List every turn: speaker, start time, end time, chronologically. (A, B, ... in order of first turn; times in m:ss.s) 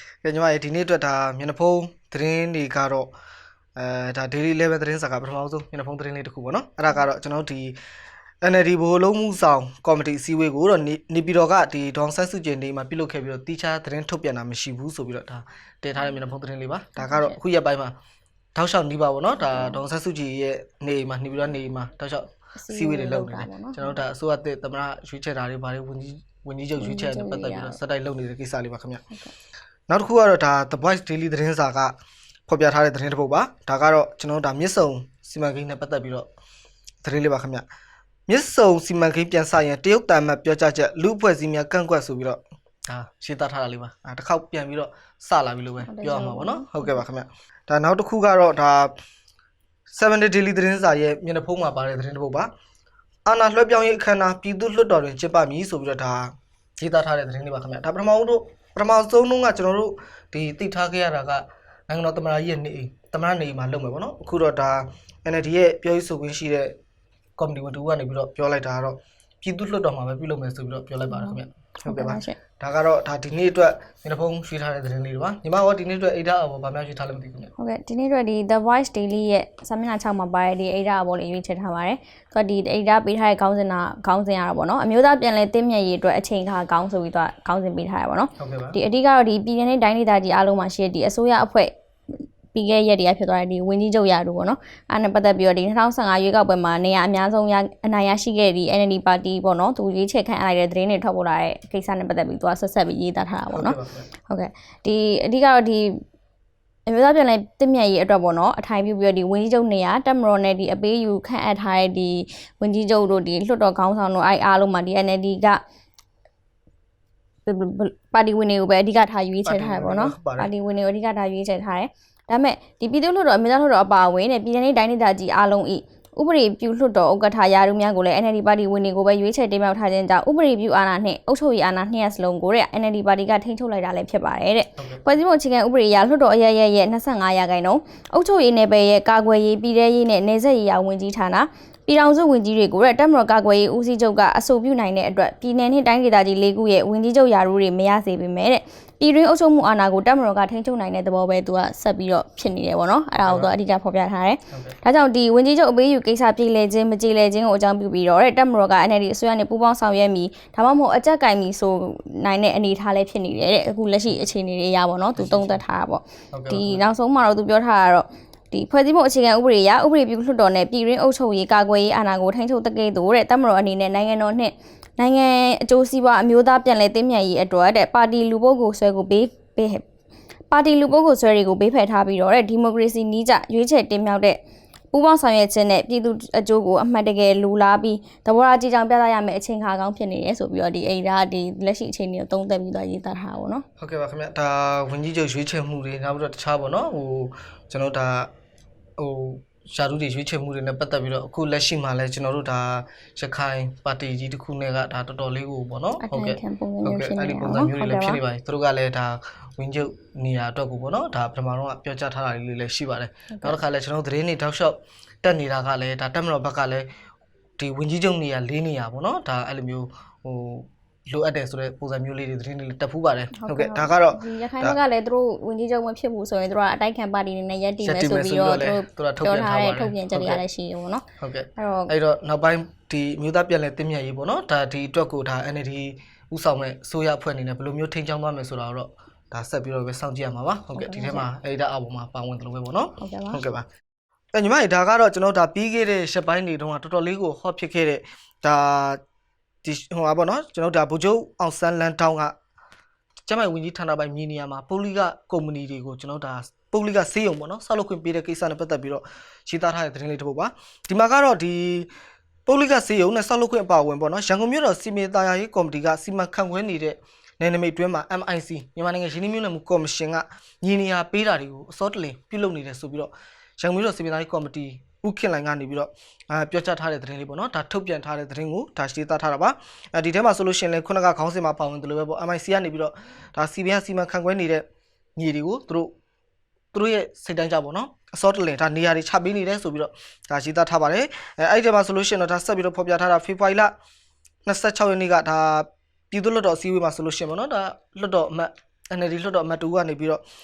0:00.2-0:03.1 A
0:03.8-0:07.8 A
0:08.4-0:18.0 A
0:17.0-0:17.4 B
0:18.6-0:29.0 A
0:19.4-0:19.8 B
0:22.6-0:24.0 B
0:26.8-0:27.8 B
0:29.9-0:31.9 A
0:32.5-0:36.3 A
0:37.0-0:37.6 A
0:38.3-0:48.9 A
0:45.8-0:47.0 B
0:49.9-0:52.5 A
0:53.3-1:06.8 A
1:07.4-1:17.5 A
1:11.1-1:12.4 B
1:17.6-1:46.0 B
1:28.4-1:28.8 A
1:43.5-1:44.1 A
1:46.9-1:55.6 B
1:57.5-2:59.8 B
1:59.5-2:00.5 A
2:14.8-2:15.0 A
2:33.2-2:33.5 A
2:45.2-2:45.6 A
2:46.3-2:46.8 A
3:00.5-3:04.4 B
3:04.9-3:13.6 B
3:13.8-3:18.3 A
3:19.0-3:36.9 A
3:26.0-3:28.2 B
3:33.3-3:33.6 B
3:37.6-3:44.8 A
3:43.4-3:51.0 B
3:47.8-3:50.4 A
3:51.2-4:03.7 A
3:51.6-3:51.9 B
4:00.7-4:01.3 B
4:03.0-4:03.4 B
4:04.3-4:09.0 A
4:09.6-4:12.4 A
4:13.3-4:21.9 A
4:22.5-4:44.6 A
4:45.2-4:45.9 A
4:46.7-4:53.7 A
4:54.5-5:00.2 A